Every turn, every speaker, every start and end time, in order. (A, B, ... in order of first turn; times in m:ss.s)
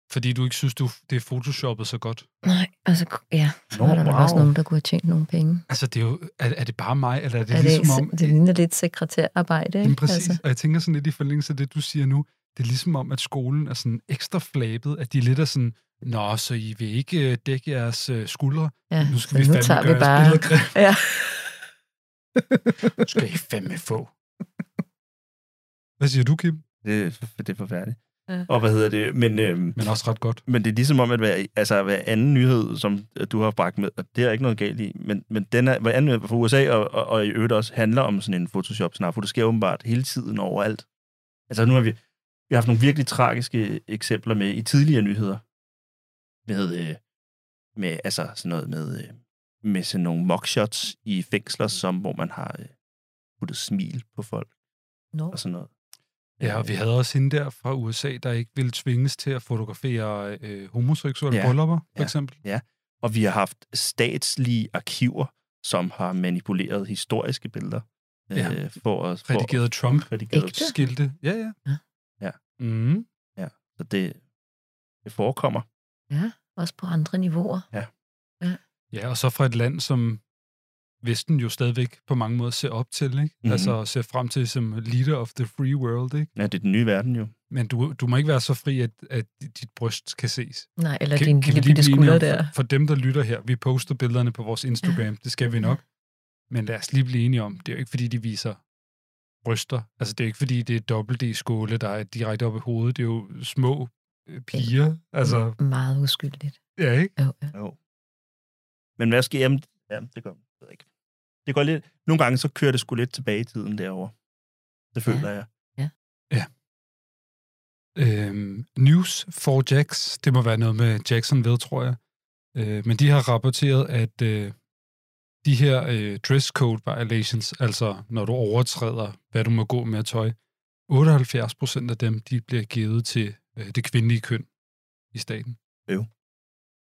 0:00.1-0:02.2 A
0:02.4-0:05.6 B
0:03.7-0:04.5 C
0:05.7-0:08.3 A
0:07.5-0:10.4 B
0:09.8-0:20.8 A
0:18.9-0:21.6 B
0:22.4-0:23.0 B
0:23.0-0:24.1 A
0:26.0-0:26.6 A
0:26.8-0:29.8 C
0:29.8-0:30.4 A
0:30.5-0:40.8 C
0:41.5-0:42.0 C
0:42.5-0:45.4 C
0:46.5-0:47.0 C
0:47.8-0:52.7 C
0:53.4-0:54.5 C
0:55.3-0:55.7 C
0:56.4-0:56.7 C
0:56.4-1:02.4 A
1:01.3-1:10.6 C
1:08.3-1:08.6 A
1:09.2-1:11.6 A
1:10.3-1:10.7 B
1:12.6-1:13.0 A
1:13.4-1:14.2 C
1:15.0-1:15.6 C
1:16.1-1:17.6 B
1:18.9-1:20.2 A
1:21.0-1:26.3 A
1:23.4-1:23.7 C
1:26.4-1:27.3 C
1:27.5-1:35.8 A
1:30.8-1:32.5 B
1:36.5-1:38.6 A
1:39.4-1:45.6 A
1:45.2-1:46.6 B
1:46.8-1:47.1 A
1:47.2-1:47.5 B
1:49.0-1:50.8 C
1:51.4-1:54.1 C
1:54.9-1:55.4 C
1:55.1-1:55.9 B
1:57.9-2:02.0 A
2:02.5-2:04.6 A
2:05.4-2:10.4 A
2:10.9-2:14.5 A
2:15.1-2:15.6 A